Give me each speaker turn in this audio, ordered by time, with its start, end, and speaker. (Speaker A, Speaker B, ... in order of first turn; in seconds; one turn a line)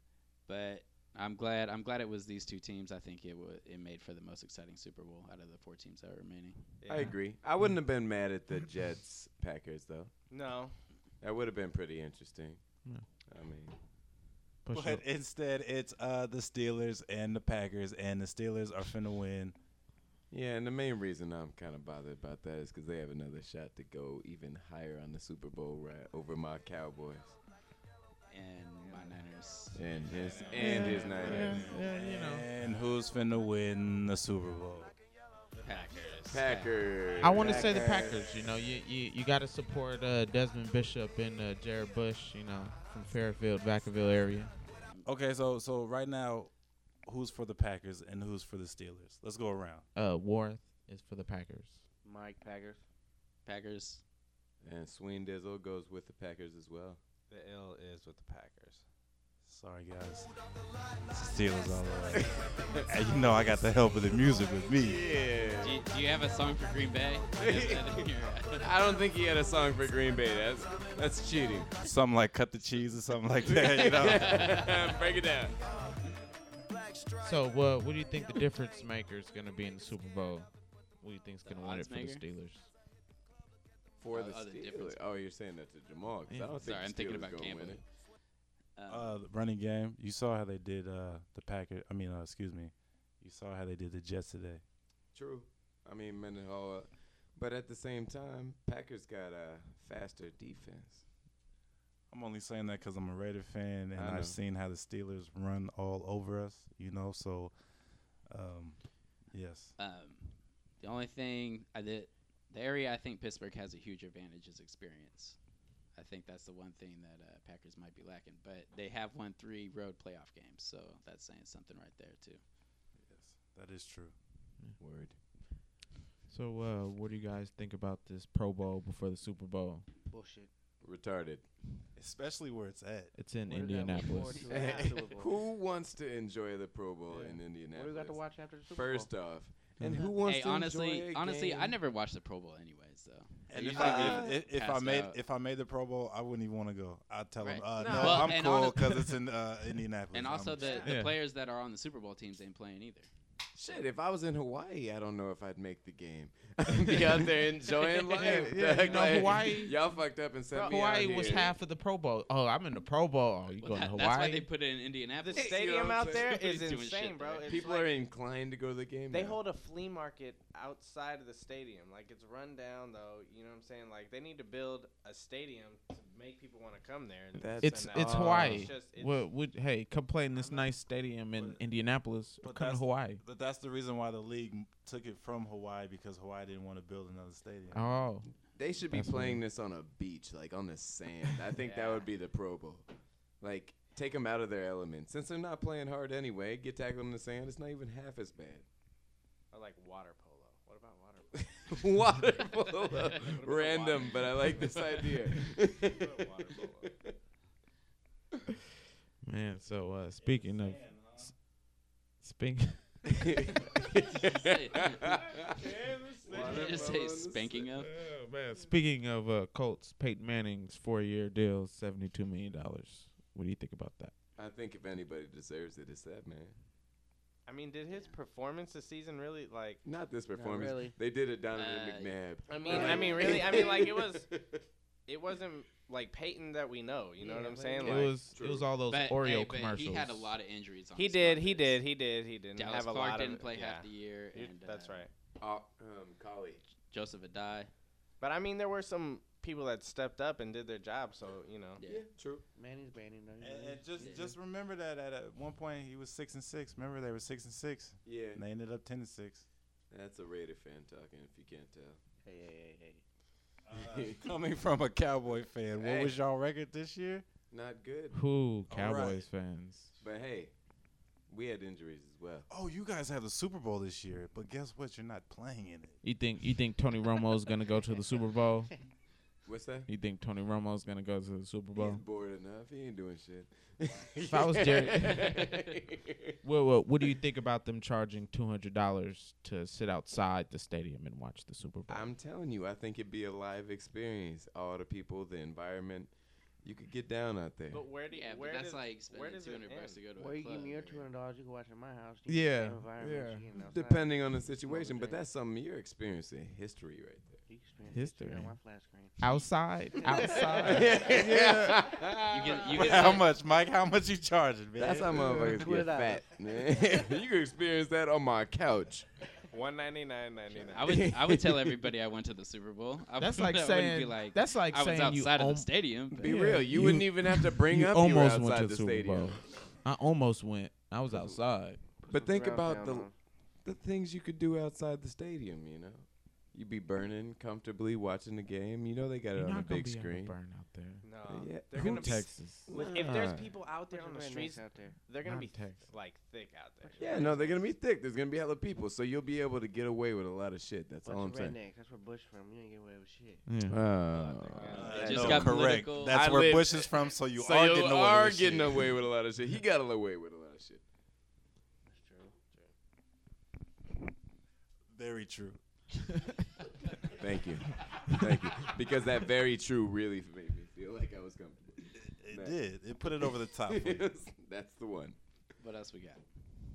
Speaker A: 0.5-7.1
Speaker B: 6.8-7.2
Speaker C: 6.9-10.1
Speaker B: 10.3-10.7
Speaker C: 11.2-12.6
Speaker C: 13.2-13.8
Speaker D: 14.6-15.0
Speaker E: 14.7-19.6
Speaker C: 20.3-27.4
Speaker A: 28.3-31.4
Speaker C: 29.7-31.6
Speaker E: 30.0-34.9
Speaker D: 30.6-32.5
Speaker A: 35.5-37.2
Speaker B: 35.7-36.0
Speaker C: 36.3-38.2
Speaker D: 37.2-44.5
Speaker F: 37.5-38.0
Speaker E: 45.0-46.5
Speaker E: 47.0-49.8
Speaker D: 49.9-51.8
Speaker F: 52.0-52.8
Speaker A: 53.4-54.0
Speaker C: 54.6-57.0
Speaker B: 57.3-58.8
Speaker E: 59.4-60.3
Speaker E: 61.1-62.3
Speaker C: 62.1-62.9
Speaker E: 62.9-65.0
Speaker C: 64.8-65.8
Speaker A: 65.6-69.0
Speaker C: 67.4-68.0
Speaker C: 68.6-71.7
Speaker E: 71.8-74.7
Speaker C: 73.4-75.5
Speaker A: 73.8-74.9
Speaker D: 77.2-82.7
Speaker A: 81.4-82.2
Speaker C: 84.0-87.8
Speaker A: 84.1-85.0
Speaker D: 86.3-86.6
Speaker A: 86.6-87.8
Speaker A: 88.8-89.1
Speaker E: 88.9-94.6
Speaker C: 95.1-101.0
Speaker E: 102.1-107.5
Speaker C: 104.0-104.4
Speaker E: 108.3-108.8
Speaker E: 109.3-109.7
Speaker A: 109.8-115.4
Speaker A: 115.9-122.4
Speaker E: 123.0-124.1
Speaker C: 124.8-125.2
Speaker D: 126.3-129.8
Speaker F: 130.1-130.5
Speaker C: 130.8-131.5
Speaker E: 131.9-133.1
Speaker D: 133.1-134.5
Speaker F: 133.5-135.3
Speaker A: 134.0-134.3
Speaker C: 134.4-141.8
Speaker F: 137.1-139.3
Speaker A: 139.9-145.2
Speaker E: 143.5-150.8
Speaker C: 143.8-144.2
Speaker A: 147.4-149.1
Speaker C: 147.8-148.3
Speaker A: 150.1-153.1
Speaker D: 150.8-151.2
Speaker C: 153.5-161.6
Speaker A: 156.9-159.5
Speaker D: 158.2-159.8
Speaker D: 160.6-164.4
Speaker A: 163.6-167.7
Speaker B: 165.2-167.9
Speaker C: 165.3-166.5
Speaker C: 167.4-169.4
Speaker B: 169.1-179.3
Speaker C: 177.3-178.7
Speaker D: 177.6-183.2
Speaker B: 180.3-180.8
Speaker B: 181.3-181.6
Speaker E: 182.4-187.9
Speaker D: 187.7-188.3
Speaker C: 188.5-192.9
Speaker D: 188.9-189.4
Speaker A: 191.6-192.1
Speaker C: 193.4-198.7
Speaker B: 199.5-201.4
Speaker C: 201.3-206.2
Speaker B: 203.2-205.0
Speaker E: 206.0-206.6
Speaker B: 206.6-206.8
Speaker C: 206.8-207.1
Speaker D: 209.2-211.2
Speaker E: 210.2-211.3
Speaker D: 212.2-213.1
Speaker C: 213.2-217.7
Speaker A: 214.4-215.2
Speaker E: 215.7-216.1
Speaker A: 216.3-217.9
Speaker D: 217.8-224.1
Speaker C: 224.3-226.6
Speaker B: 227.4-229.8
Speaker A: 227.9-228.2
Speaker C: 229.8-234.6
Speaker F: 230.3-231.0
Speaker A: 231.5-233.2
Speaker B: 232.5-234.2
Speaker F: 232.8-233.4
Speaker B: 235.1-238.1
Speaker F: 237.2-238.1
Speaker D: 237.8-240.3
Speaker C: 238.2-238.7
Speaker A: 238.9-241.8
Speaker B: 240.9-245.1
Speaker A: 242.5-245.0
Speaker C: 245.4-246.6
Speaker A: 246.8-247.7
Speaker B: 248.2-251.8
Speaker A: 251.8-252.1
Speaker C: 251.8-252.4
Speaker F: 252.6-254.2
Speaker E: 253.4-259.4
Speaker A: 254.0-254.3
Speaker C: 258.0-258.4
Speaker C: 259.9-262.0
Speaker F: 262.2-263.0
Speaker E: 263.7-267.3
Speaker C: 263.7-264.3
Speaker C: 265.8-266.2
Speaker C: 267.5-268.2
Speaker D: 268.1-269.9
Speaker E: 268.7-269.2
Speaker C: 270.0-270.5
Speaker C: 271.3-272.5
Speaker E: 272.5-276.0
Speaker D: 276.0-278.7
Speaker C: 279.4-279.9
Speaker D: 279.9-282.0
Speaker C: 281.7-286.2
Speaker D: 284.3-285.4
Speaker D: 286.4-292.1
Speaker C: 291.9-297.8
Speaker B: 297.7-300.0
Speaker A: 298.1-301.1
Speaker F: 300.1-305.2
Speaker D: 302.3-302.9
Speaker C: 303.0-307.4
Speaker F: 307.5-309.4
Speaker D: 307.9-308.6
Speaker D: 309.2-311.8
Speaker F: 310.1-310.6
Speaker C: 310.6-312.7
Speaker A: 312.3-313.3
Speaker E: 312.8-315.4
Speaker C: 314.8-319.1
Speaker F: 315.1-316.3
Speaker B: 319.5-320.9
Speaker A: 320.7-326.6
Speaker C: 320.8-321.8
Speaker D: 323.2-331.8
Speaker C: 326.1-329.4
Speaker C: 331.1-331.4
Speaker F: 332.0-333.1
Speaker C: 332.1-333.1
Speaker C: 333.6-340.3
Speaker D: 339.3-341.0
Speaker B: 341.0-347.3
Speaker C: 341.2-343.5
Speaker D: 341.8-342.7
Speaker F: 343.9-345.0
Speaker D: 345.2-345.9
Speaker F: 346.8-347.7
Speaker C: 347.0-351.6
Speaker F: 351.0-353.6
Speaker D: 353.4-353.8
Speaker C: 353.7-360.8
Speaker F: 354.1-354.8
Speaker B: 354.5-355.0
Speaker E: 354.7-358.9
Speaker A: 354.8-356.8
Speaker F: 361.9-362.4
Speaker E: 364.9-365.6
Speaker C: 367.1-372.6
Speaker E: 371.9-374.1
Speaker C: 373.2-375.2
Speaker A: 375.6-376.2